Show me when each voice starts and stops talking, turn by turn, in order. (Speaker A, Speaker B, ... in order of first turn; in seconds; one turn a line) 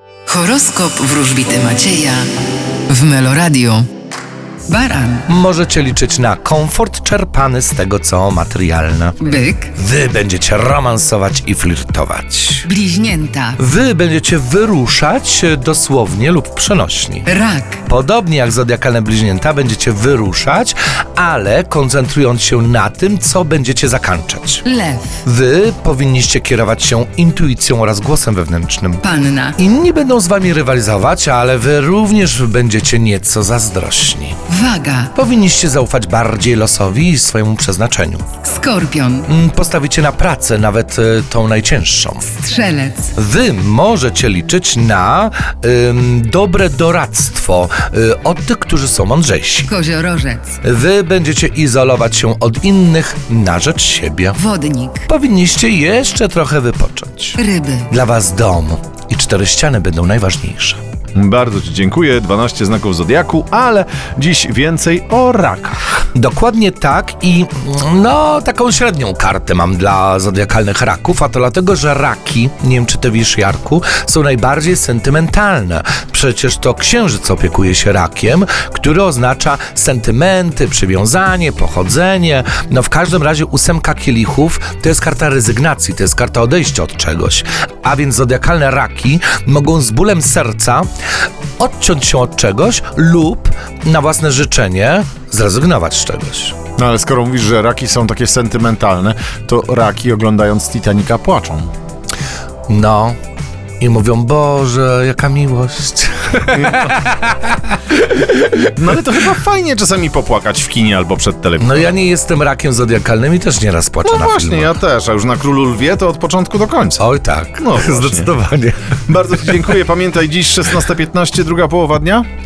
Speaker A: 0.3-3.9
Speaker A: 4.7-5.3
Speaker B: 5.3-12.7
Speaker A: 9.2-9.7
Speaker A: 12.7-13.6
Speaker B: 13.6-17.3
Speaker A: 17.3-17.8
Speaker B: 17.9-24.7
Speaker A: 24.6-25.2
Speaker B: 25.2-34.4
Speaker A: 29.0-29.6
Speaker A: 34.5-35.1
Speaker B: 35.1-38.4
Speaker A: 38.4-39.3
Speaker B: 39.3-42.5
Speaker A: 42.4-43.1
Speaker B: 43.1-49.7
Speaker A: 49.7-50.6
Speaker B: 50.6-54.4
Speaker A: 54.4-55.1
Speaker B: 55.1-60.8
Speaker A: 57.4-57.9
Speaker C: 61.1-66.1
Speaker B: 66.2-90.9
Speaker B: 91.6-96.6
Speaker C: 96.8-101.7
Speaker B: 102.7-103.2
Speaker B: 103.8-109.0
Speaker C: 106.5-106.9
Speaker C: 108.7-111.9
Speaker B: 111.6-114.8
Speaker C: 114.0-117.0
Speaker B: 117.0-119.7
Speaker C: 117.6-118.3
Speaker C: 119.1-122.3